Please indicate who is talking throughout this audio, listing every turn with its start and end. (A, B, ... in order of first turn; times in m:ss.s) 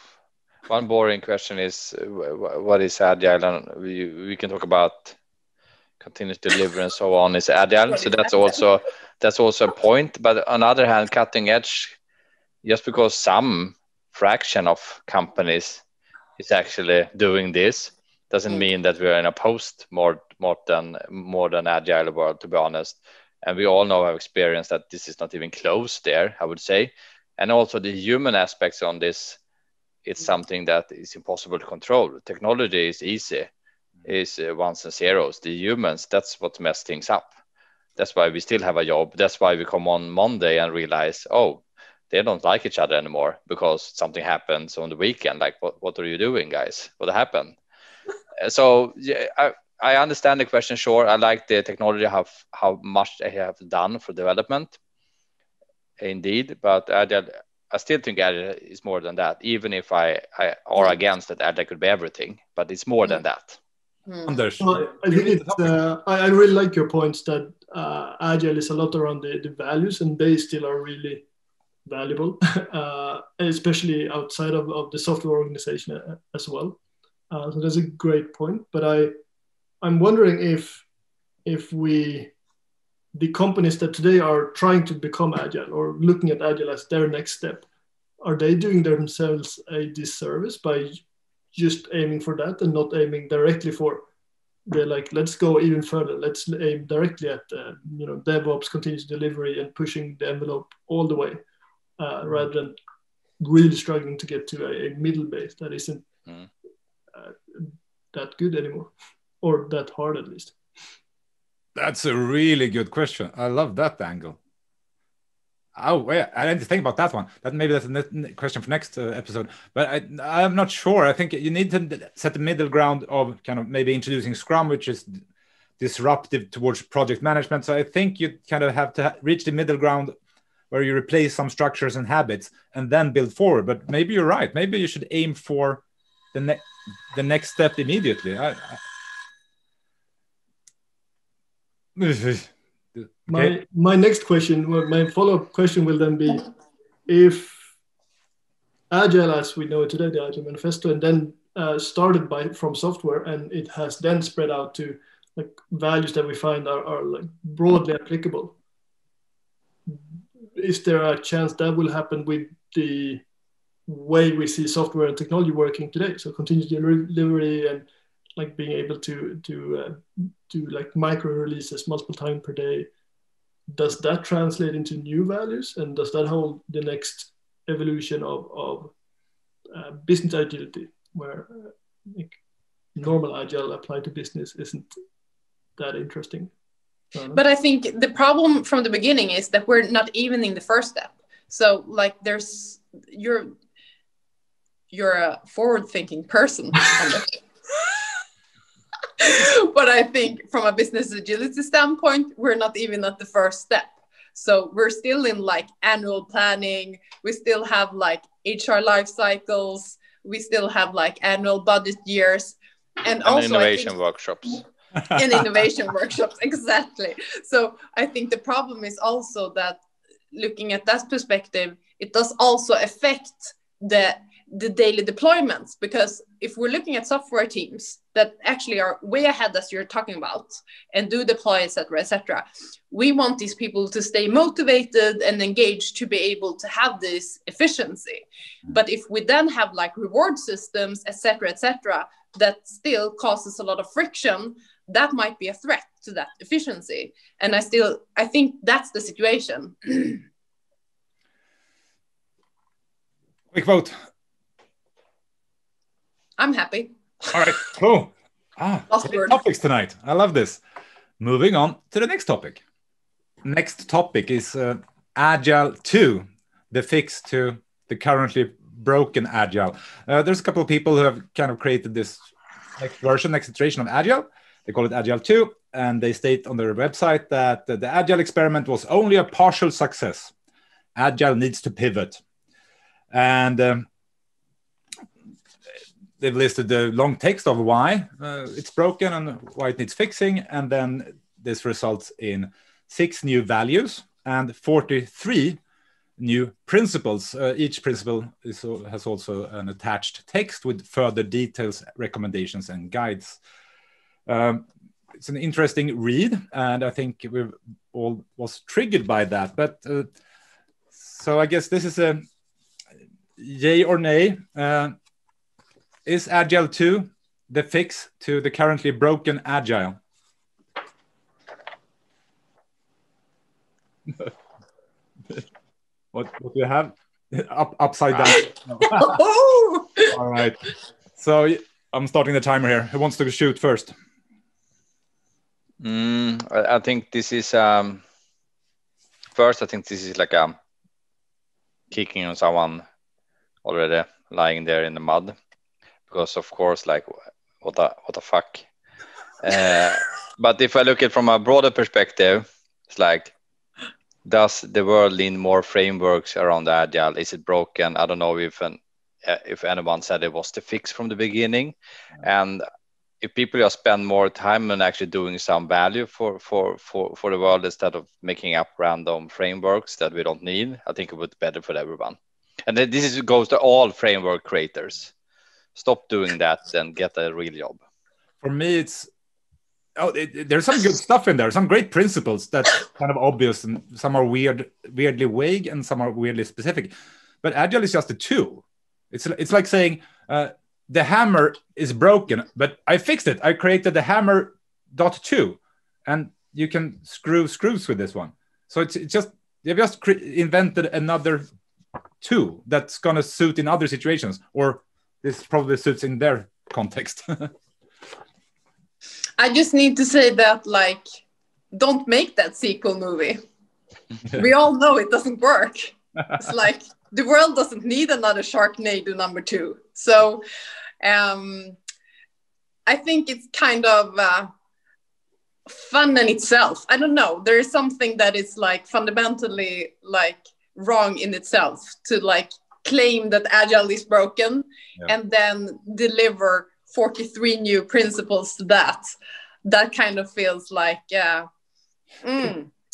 0:00.6-0:05.2 A
0:06.0-0:12.0 A
0:12.6-0:15.8 A
0:16.4-0:29.4 A
0:30.0-0:33.5 A
0:34.0-0:37.3 A
0:38.0-0:47.6 A
0:48.4-0:54.8 A
0:56.0-1:03.6 A
1:04.1-1:04.3 B
1:04.2-1:05.7 C
1:04.6-1:11.2 D
1:11.8-1:16.8 D
1:17.3-1:19.1 D
1:19.8-1:20.8 D
1:21.4-1:22.3 D
1:23.1-1:27.6 D
1:28.2-1:31.0 D
1:31.5-1:34.0 D
1:34.7-1:41.4 D
1:42.0-1:42.8 D
1:43.4-1:46.0 D
1:47.1-1:48.9 D
1:49.4-1:50.5 D
1:51.8-1:54.4 C
1:55.8-2:05.2 C
2:05.8-2:10.1 C
2:10.7-2:18.8 C
2:22.0-2:23.6 C
2:23.3-2:26.5 D
2:27.1-2:27.7 D
2:28.9-2:38.6 D
2:40.5-2:43.2 D
2:43.9-2:52.9 D
2:53.7-2:58.9 D
2:59.7-3:02.4 D
3:02.9-3:04.9 D
3:05.8-3:06.5 D
3:07.1-3:07.4 D
3:07.3-3:13.5 B
3:14.9-3:17.4 B
3:19.2-3:33.9 B
3:33.2-3:34.6 A
3:35.1-3:39.8 B
3:40.3-4:10.2 B
4:13.5-4:13.9 C
4:16.4-4:16.9 B
4:17.3-4:20.6 C
4:18.9-4:19.4 B
4:21.2-4:22.6 C
4:23.4-4:32.2 C
4:32.8-4:40.3 C
4:41.0-4:42.2 C
4:43.1-4:43.8 C
4:46.2-4:55.6 C
4:56.2-5:03.4 C
5:04.3-5:10.1 C
5:10.9-5:12.2 C
5:13.4-5:15.0 C
5:16.0-5:20.0 C
5:26.1-5:29.2 C
5:28.3-5:30.1 B
5:30.1-5:30.6 C
5:31.2-5:33.9 C
5:35.8-5:38.0 A
5:39.3-5:40.6 A
5:41.9-5:42.8 A
5:43.6-5:45.3 A
5:46.1-5:48.6 A
5:49.4-5:53.3 A
5:54.2-6:02.6 A
6:03.2-6:15.1 A
6:15.8-6:17.8 A
6:18.4-6:19.1 C
6:20.0-6:41.4 C
6:42.2-6:47.5 C
6:49.4-6:51.2 B
6:51.7-6:53.4 B
6:54.3-7:00.4 B
7:01.0-7:01.8 B
7:02.8-7:04.5 B
7:05.7-7:19.1 B
7:19.6-7:21.5 B
7:22.2-7:22.7 B